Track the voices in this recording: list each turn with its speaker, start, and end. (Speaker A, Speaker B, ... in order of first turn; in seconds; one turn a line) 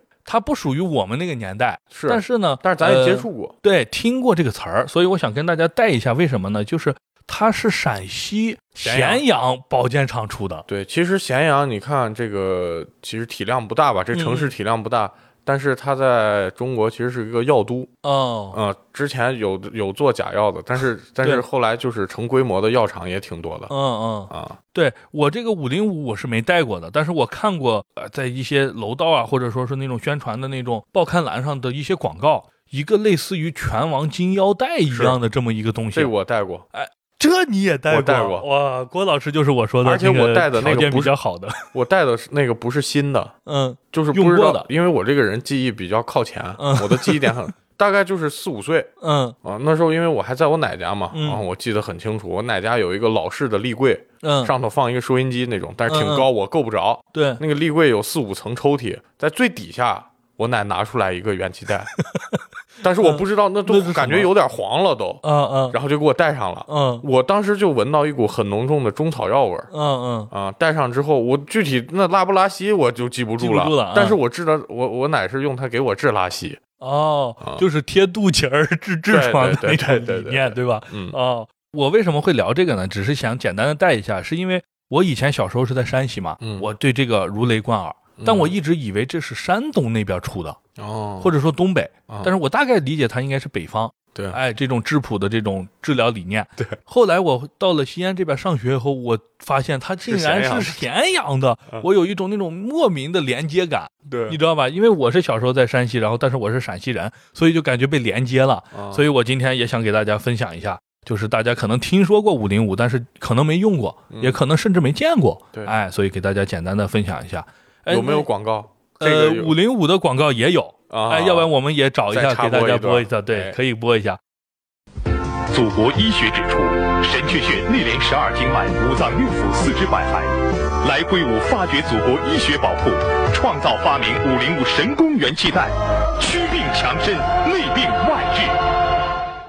Speaker A: 0.3-10.7
Speaker B: 1.9-3.5
Speaker B: 8.8-9.2
Speaker B: 10.7-17.9
Speaker A: 14.1-14.5
Speaker A: 18.0-18.6
Speaker B: 18.5-23.7
Speaker A: 23.7-36.1
Speaker B: 24.3-24.6
Speaker B: 34.9-35.2
Speaker B: 35.9-36.7
Speaker A: 36.7-41.6
Speaker B: 37.9-38.5
Speaker B: 39.8-41.1
Speaker B: 41.7-43.3
Speaker A: 43.5-44.7
Speaker B: 43.9-48.9
Speaker A: 46.6-47.4
Speaker A: 49.0-49.4
Speaker B: 49.4-61.9
Speaker A: 51.1-51.4
Speaker A: 54.2-54.5
Speaker A: 55.9-56.3
Speaker A: 57.1-57.4
Speaker A: 62.0-62.4
Speaker B: 62.8-69.7
Speaker A: 63.0-64.3
Speaker A: 65.2-65.8
Speaker A: 66.7-67.0
Speaker A: 69.7-70.3
Speaker B: 70.3-76.6
Speaker A: 73.4-74.2
Speaker A: 76.8-90.6
Speaker B: 79.1-81.2
Speaker B: 86.4-86.7
Speaker B: 88.2-88.5
Speaker B: 90.8-91.3
Speaker A: 91.2-118.3
Speaker B: 94.1-94.4
Speaker B: 100.0-100.9
Speaker B: 104.1-104.4
Speaker B: 108.7-109.0
Speaker B: 114.1-114.4
Speaker B: 117.9-119.6
Speaker A: 119.0-124.2
Speaker B: 120.9-121.5
Speaker B: 122.1-123.6
Speaker C: 125.5-138.6